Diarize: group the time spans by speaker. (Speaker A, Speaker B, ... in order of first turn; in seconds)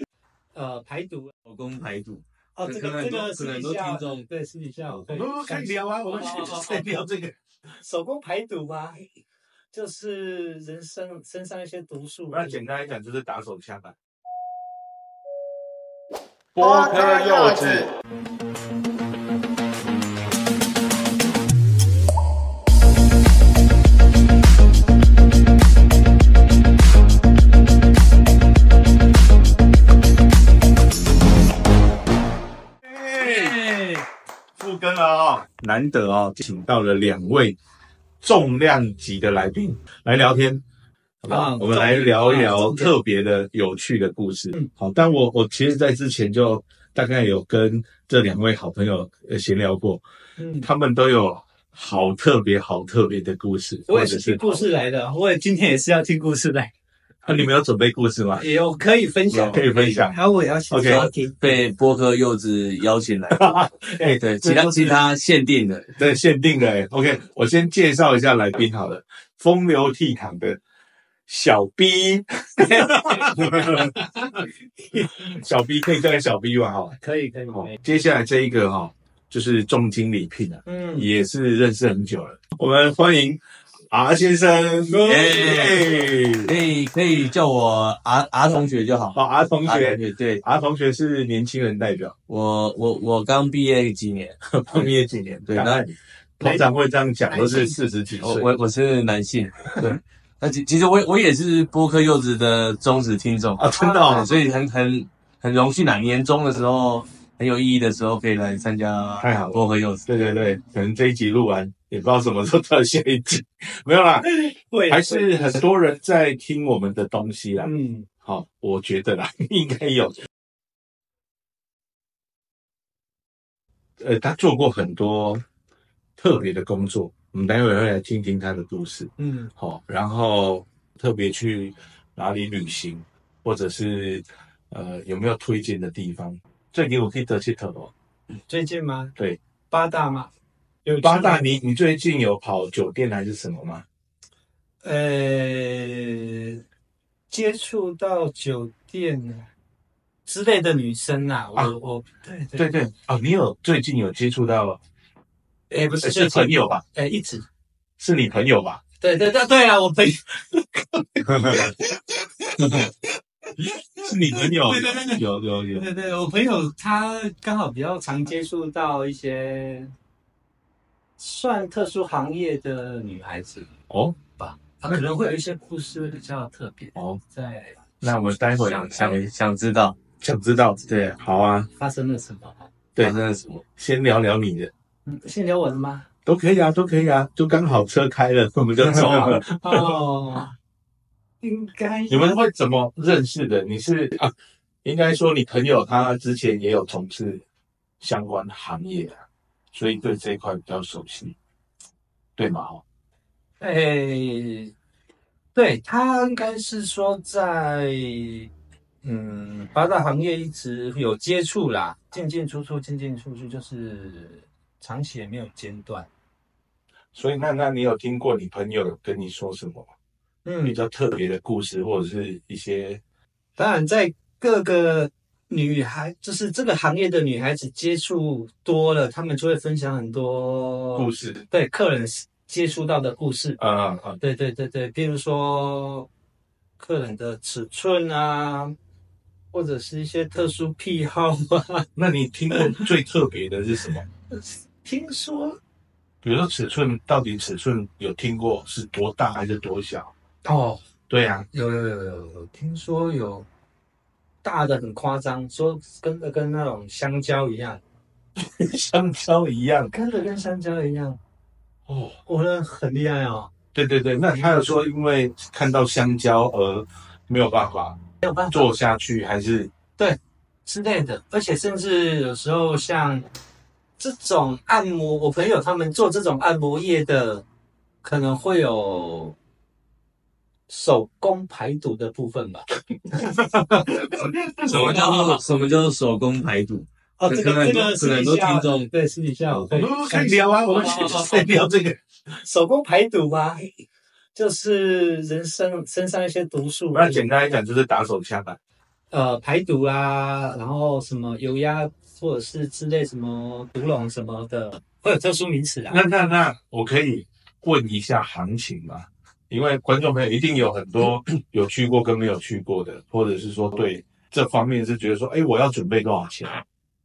Speaker A: 0.5-1.3, 2.5-6.9, 7.8-9.0, 9.7-12.6, 33.2-34.0, 41.3-42.9, 50.4-50.7, 53.9-56.7, 58.4-61.5, 72.9-74.0, 77.0-77.7, 80.7-81.1, 97.3-97.8, 103.7-104.4, 114.3-115.6, 117.6-118.1, 129.2-129.5, 138.5-139.1, 139.7-140.3, 141.0-141.4, 144.8-146.6, 147.3-149.5, 150.2-152.7, 155.7-157.4, 159.0-162.9, 163.5-169.9, 171.2-173.7, 174.4-177.8, 181.8-182.7, 185.1-186.1, 189.6-190.5, 191.4-192.4, 203.6-204.7, 205.5-208.5, 209.0-216.1, 220.4-220.8, 223.6-233.6, 234.2-236.1, 236.8-238.8, 239.5-241.9, 242.5-242.9, 244.3-245.6, 250.4-250.8, 251.5-253.4, 254.4-257.8, 259.9-261.2, 262.2-263.5, 268.2-268.7, 270.0-273.2, 274.0-277.4, 278.0-279.4, 280.7-282.7, 284.1-285.4, 287.2-291.7, 292.4-293.6, 294.3-297.2, 299.1-306.0
Speaker B: 1.4-4.2, 60.8-63.6, 64.2-66.0, 85.0-90.4, 92.3-94.9, 95.5-95.8, 98.2-110.1, 161.3-161.6, 178.2-180.0, 180.9-181.2, 183.0-183.6, 188.8-189.4, 284.7-288.9
Speaker C: 5.1-7.3, 12.3-13.9, 16.5-17.9, 32.8-33.6, 34.6-37.6, 38.2-40.6, 41.2-50.0, 50.6-54.6, 57.2-58.5, 59.3-60.2, 60.7-61.1, 63.3-65.0, 66.0-70.6, 71.3-77.0, 77.5-86.5, 89.1-92.1, 94.5-98.5, 103.6-104.3, 109.2-114.3, 114.9-120.2, 124.0-125.4, 126.2-137.9, 140.8-143.8, 152.6-154.8, 156.0-156.8, 158.0-158.8, 161.4-161.8, 164.0-165.8, 173.9-174.2, 176.9-177.2, 178.0-179.2, 180.2-181.7, 183.8-184.7, 186.2-190.0, 192.1-194.3, 194.8-197.4, 198.0-201.3, 202.4-202.8, 217.1-219.9, 220.6-223.0, 230.9-231.4, 233.6-234.2, 241.9-244.1, 246.2-250.1, 251.1-251.5, 258.4-259.9, 261.9-262.2, 263.7-268.0, 268.5-269.7, 283.1-285.2, 289.7-292.0, 296.9-298.6, 305.9-316.6